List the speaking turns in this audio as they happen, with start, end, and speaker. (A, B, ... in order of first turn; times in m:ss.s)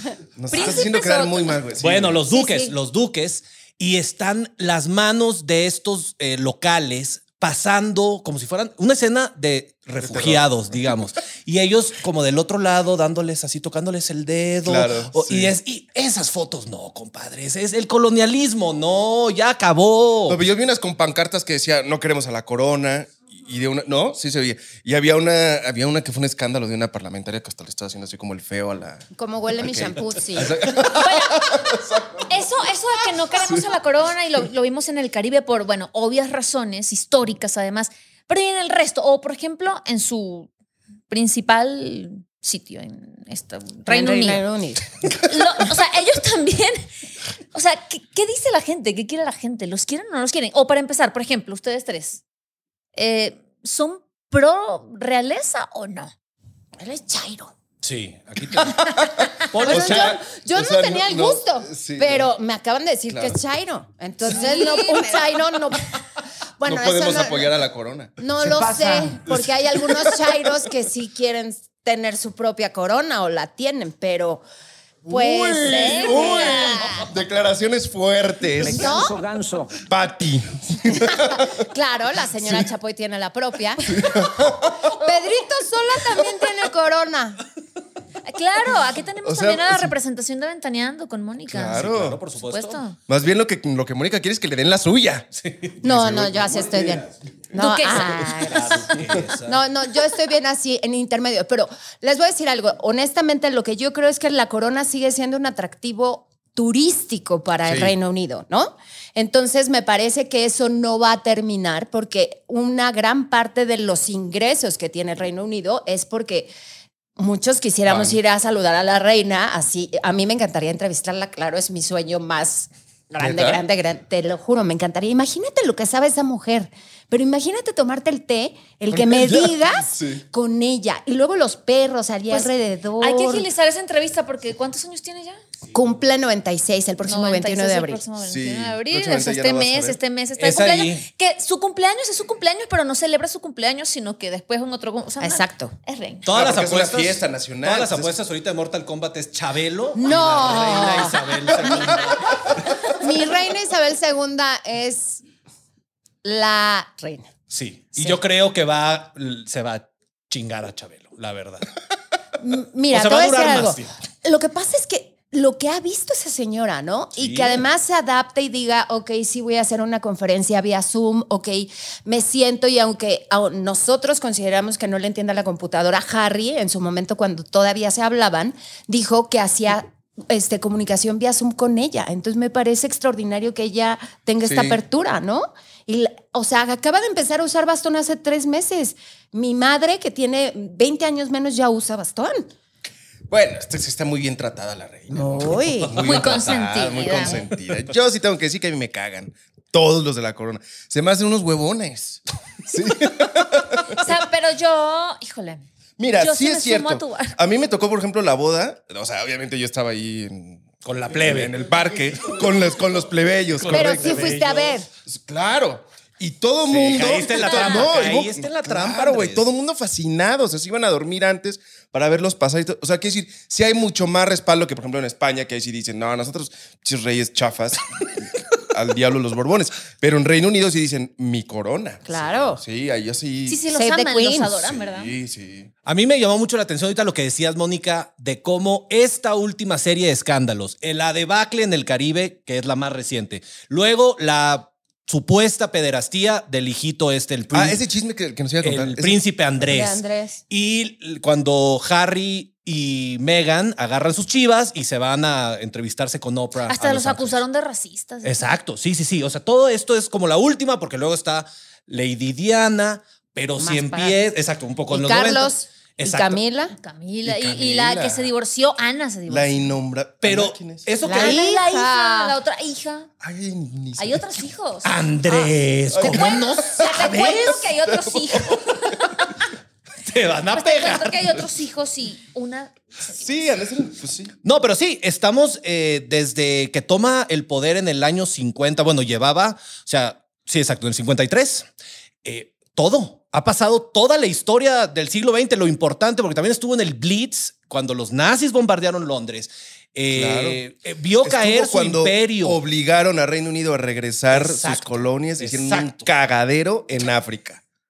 0:00.4-0:02.2 A
0:00.5-0:01.6 B
0:01.8-0:20.4 C
0:02.3-0:02.7 D
0:10.0-0:10.6 A
0:14.6-0:15.5 A
0:20.3-0:29.1 A
0:29.2-0:30.5 D
0:29.6-0:32.3 A
0:30.9-0:31.5 B
0:32.3-0:40.5 B
0:33.4-0:33.6 A
0:41.1-0:44.4 B
0:43.9-0:44.9 D
0:45.2-0:46.8 B
0:47.5-0:52.2 B
0:53.0-0:56.1 B
0:56.8-0:57.5 D
0:57.8-1:00.2 C
0:58.6-1:02.3 A
0:59.6-1:05.8 D
1:03.1-1:03.4 A
1:04.3-1:05.2 B
1:06.6-1:07.5 D
1:06.6-1:08.2 A
1:08.2-1:14.4 D
1:08.5-1:09.2 E
1:09.3-1:10.5 A
1:15.0-1:18.9 A
1:15.1-1:17.1 D
1:15.6-1:16.8 B
1:18.6-1:19.8 E
1:18.7-1:19.2 D
1:19.8-1:21.5 A
1:21.1-1:27.4 D
1:24.0-1:24.8 A
1:28.3-1:31.8 B
1:29.2-1:29.9 A
1:31.5-1:32.2 A
1:31.7-1:32.8 C
1:32.4-1:33.0 B
1:33.1-1:35.3 A
1:35.4-1:35.8 C
1:35.8-1:37.0 A
1:35.8-1:56.5 D
1:37.6-1:38.3 B
1:38.2-1:39.6 C
1:47.6-1:48.0 A
1:57.2-2:13.5 D
1:57.9-1:58.2 A
2:03.2-2:03.6 A
2:08.9-2:10.2 A
2:12.3-2:15.4 B
2:15.7-2:18.0 D
2:17.0-2:26.3 B
2:18.2-2:20.0 A
2:20.4-2:21.0 C
2:25.2-2:25.7 D
2:26.2-2:32.3 C
2:26.3-2:28.1 A
2:30.0-2:32.0 D
2:32.9-2:35.2 D
2:36.2-2:37.3 D
2:37.5-2:41.7 C
2:42.4-3:12.5 D
2:42.9-2:43.9 C
2:47.2-2:47.6 C
3:04.4-3:04.8 A
3:13.3-3:24.0 A
3:15.1-3:16.0 D
3:16.0-3:17.4 B
3:24.0-3:25.6 B
3:26.0-3:34.4 A
3:26.2-3:27.4 B
3:30.8-3:31.6 C
3:33.6-3:34.8 C
3:33.7-3:34.9 D
3:35.1-3:53.6 A
3:36.7-3:39.5 C
3:37.3-3:37.8 B
3:52.1-3:52.6 D
3:53.5-3:55.1 B
3:53.7-3:54.6 D
3:54.6-3:55.7 A
3:55.9-4:07.8 C
4:07.5-4:09.2 A
4:08.6-4:17.4 C
4:09.6-4:10.4 D
4:16.7-4:18.5 B
4:18.2-4:26.4 C
4:23.6-4:24.2 D
4:24.9-4:26.7 D
4:26.8-4:29.7 B
4:27.2-4:28.3 A
4:29.3-4:30.9 A
4:30.2-4:31.5 C
4:31.0-4:32.4 D
4:31.0-4:33.1 B
4:33.2-4:34.2 A
4:34.0-4:34.9 B
4:34.8-4:37.6 C
4:35.9-4:38.2 A
4:36.1-4:39.3 B
4:40.0-4:41.4 C
4:40.5-4:43.2 B
4:43.2-4:44.4 A
4:44.4-4:51.7 C
4:52.2-5:02.6 C
5:00.1-5:00.6 A
5:01.2-5:07.6 A
5:04.3-5:06.1 C